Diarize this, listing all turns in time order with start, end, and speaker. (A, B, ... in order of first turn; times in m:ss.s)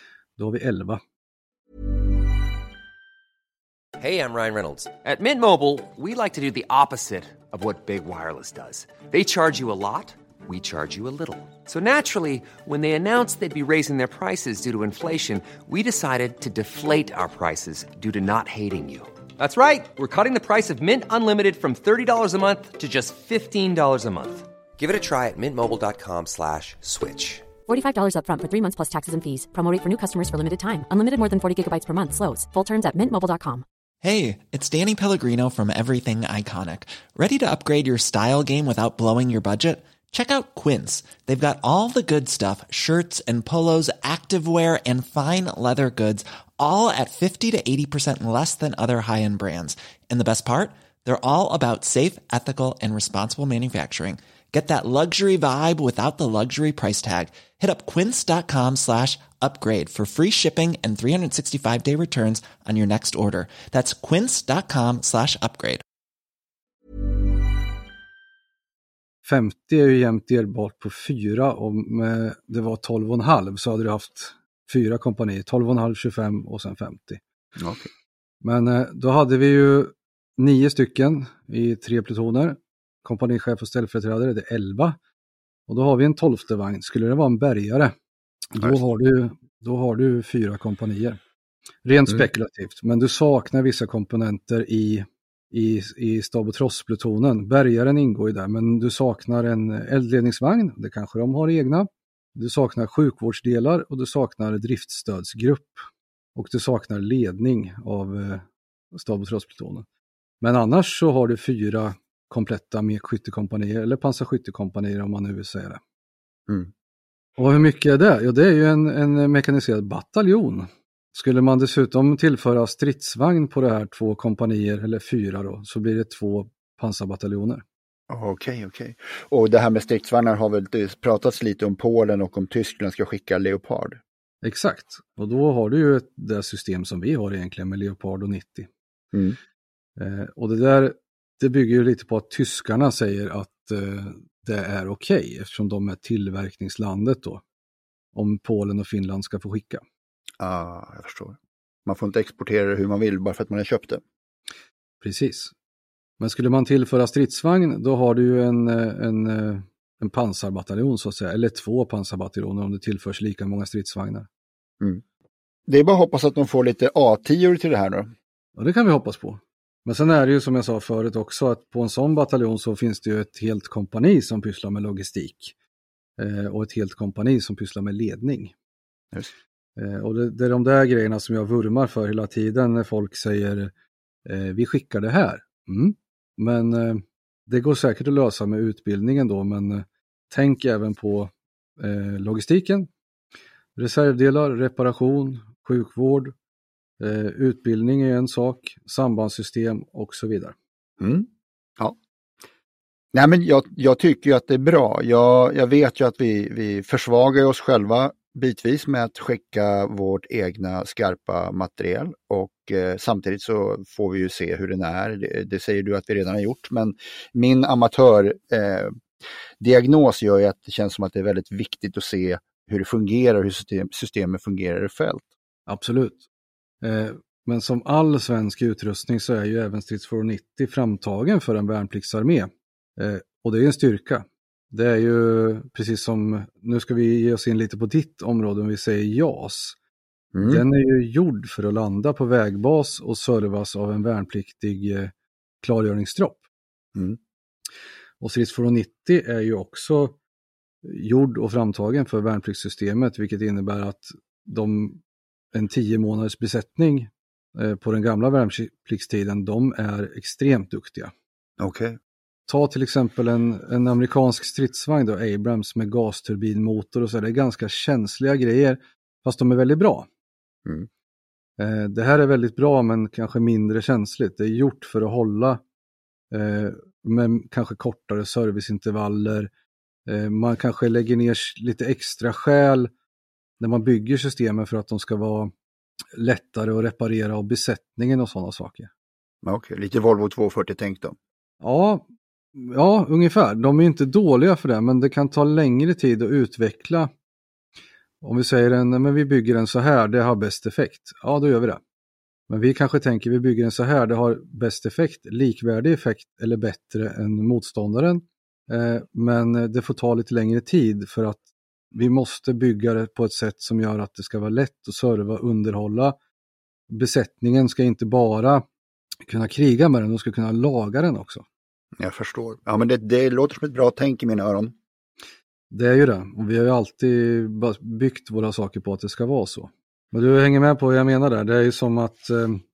0:00.4-0:01.0 A
0:04.0-0:27.5 B
0:27.6-0:33.6 C
0:34.0-1:05.8 D
1:09.2-1:17.2 A
1:17.6-1:17.9 E
1:18.4-1:25.0 A
1:25.7-1:27.9 A
1:28.5-1:31.2 A
1:28.6-1:28.8 E
1:31.8-1:45.8 A
1:46.3-1:49.8 A
1:50.4-1:55.8 A
1:57.4-2:07.6 A
2:08.1-2:14.0 E
2:14.4-2:18.7 A
2:20.0-2:27.4 A
2:28.1-2:29.8 A
2:30.4-2:34.0 E
2:35.0-2:35.5 A
2:36.2-2:44.3 A
2:45.7-2:48.1 E
2:48.6-2:55.5 A
2:56.2-2:58.5 A
2:59.8-3:03.7 A
3:04.2-3:12.9 A
3:13.8-3:16.3 A
3:17.0-3:20.5 A
3:21.0-3:22.0 E
3:23.1-3:38.9 E
3:39.6-3:45.2 E
3:45.7-3:46.2 A
3:46.8-3:59.8 A
4:00.3-4:00.6 E
4:00.4-4:06.4 A
4:08.2-4:10.2 A
4:10.8-4:15.0 A
4:15.5-4:21.1 A
4:21.6-4:22.0 E
4:22.5-4:30.1 A
4:31.6-4:35.6 A
4:36.3-4:39.5 A
4:40.0-4:42.9 A
4:43.6-4:45.5 A
4:46.1-4:48.9 A
4:49.4-4:51.2 E
4:51.6-4:57.1 A
4:58.2-5:01.8 A
5:02.5-5:16.2 A
5:16.9-5:18.6 A
5:19.2-5:21.4 A
5:22.0-5:24.7 E
5:25.7-5:32.6 A